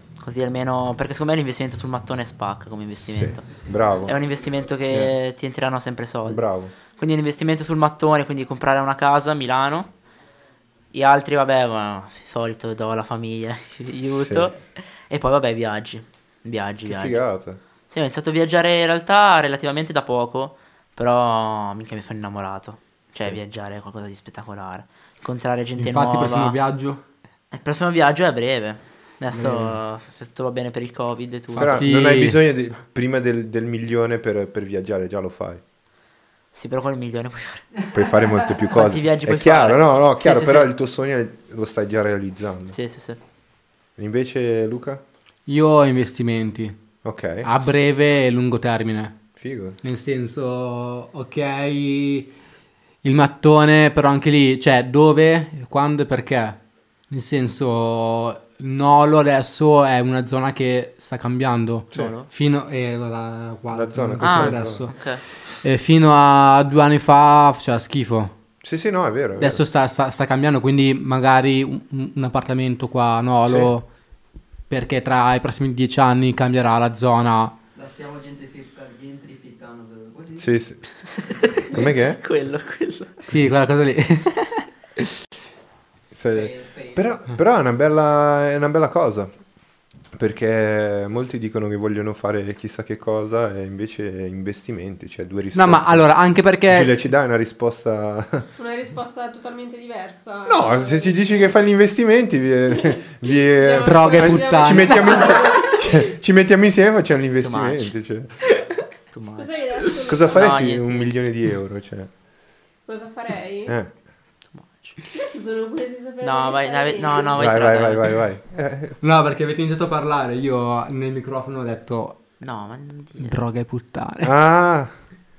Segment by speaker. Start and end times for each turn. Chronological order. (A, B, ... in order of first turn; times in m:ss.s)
0:00.2-0:03.5 A
0:03.0-0:04.2 B
0:03.4-0:05.0 C
0:04.0-0:09.9 A
0:06.2-0:06.7 B
0:10.9-0:17.2 A
0:14.1-0:14.6 B
0:16.8-0:17.6 B
0:17.9-0:26.6 A
0:25.8-0:27.0 D
0:27.5-0:31.8 A
0:29.3-0:29.8 D
0:31.6-0:35.6 B
0:31.6-0:32.4 D
0:36.5-0:37.7 A
0:37.8-0:38.7 C
0:37.9-0:42.8 B
0:38.7-0:40.7 A
0:42.7-0:43.2 A
0:44.0-0:45.0 B
0:45.5-0:46.8 D
0:47.0-0:47.5 B
0:47.4-0:49.2 D
0:49.4-0:49.8 B
0:49.8-0:52.3 D
0:53.0-0:56.6 D
0:57.1-1:05.0 D
1:01.9-1:02.3 A
1:03.7-1:04.9 B
1:04.2-1:05.2 A
1:05.6-1:08.3 D
1:08.6-1:09.6 B
1:09.4-1:13.9 D
1:13.4-1:13.7 B
1:14.7-1:17.5 D
1:17.7-1:20.5 C
1:20.4-1:20.9 B
1:21.0-1:23.2 A
1:21.7-1:22.2 B
1:23.2-1:25.1 D
1:26.1-1:29.3 B
1:26.3-1:27.3 C
1:30.1-1:36.1 B
1:35.5-1:36.9 D
1:36.7-1:38.5 B
1:38.6-1:41.4 E
1:40.5-1:48.4 B
1:42.8-1:46.1 E
1:43.8-1:45.3 D
1:47.4-1:47.9 A
1:49.1-1:51.1 A
1:49.4-1:50.7 E
1:50.1-1:52.1 B
1:52.9-1:53.8 E
1:54.5-1:55.0 A
1:55.1-1:57.5 E
1:56.2-1:58.1 A
1:57.4-1:59.0 B
1:59.0-2:02.2 D
2:02.4-2:03.4 A
2:03.2-2:04.3 D
2:04.2-2:04.9 B